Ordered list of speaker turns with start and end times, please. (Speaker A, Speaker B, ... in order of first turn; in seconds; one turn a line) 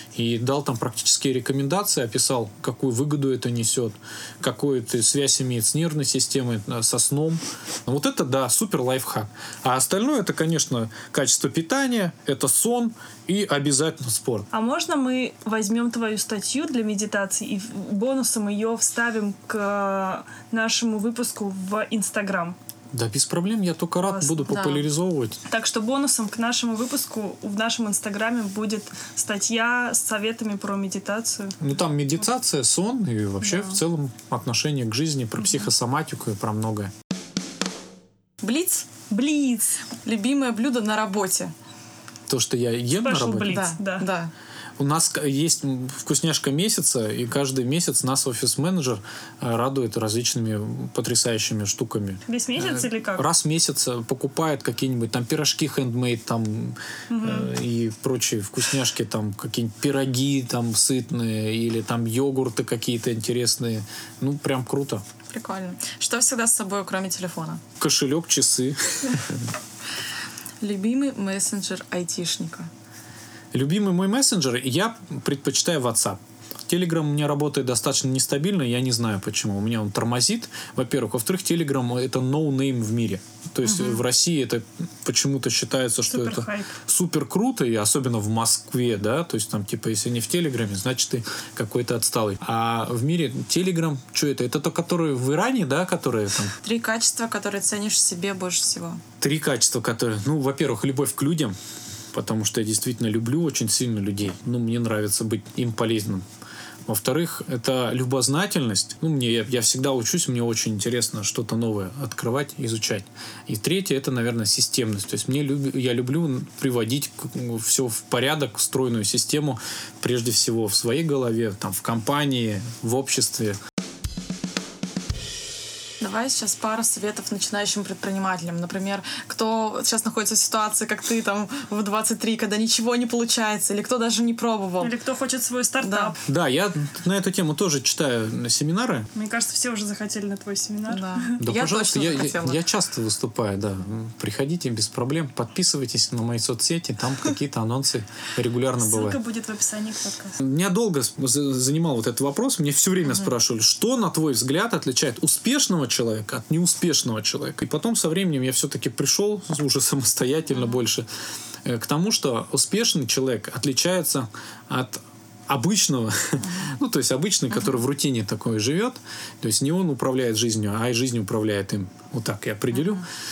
Speaker A: 0.1-14.5
Speaker B: 14.5-22.6
Speaker A: 22.9-25.4
Speaker B: 24.0-24.5
Speaker C: 24.5-24.9
Speaker B: 25.5-31.6
Speaker A: 31.6-36.9
Speaker B: 33.4-33.8
Speaker C: 38.4-39.0
Speaker B: 39.1-39.8
Speaker C: 39.9-41.5
Speaker A: 42.3-43.6
Speaker B: 43.0-44.1
Speaker C: 43.5-44.3
Speaker A: 44.8-65.0
Speaker B: 52.3-53.2
Speaker B: 57.1-57.5
Speaker C: 65.3-67.6
Speaker A: 67.8-69.4
Speaker C: 70.6-72.7
Speaker A: 73.5-96.5
Speaker C: 83.6-84.0
Speaker B: 86.1-86.7
Speaker C: 96.6-99.0
Speaker A: 99.2-101.6
Speaker A: 102.1-106.2
Speaker A: 106.9-123.6
Speaker C: 126.0-134.9
Speaker B: 134.8-136.2
Speaker C: 135.8-136.1
Speaker A: 136.2-139.1
Speaker B: 139.2-141.4
Speaker C: 140.9-142.6
Speaker A: 141.4-149.2
Speaker B: 148.8-150.4
Speaker A: 150.4-161.1
Speaker C: 160.5-160.8
Speaker A: 161.6-173.1
Speaker C: 172.7-173.0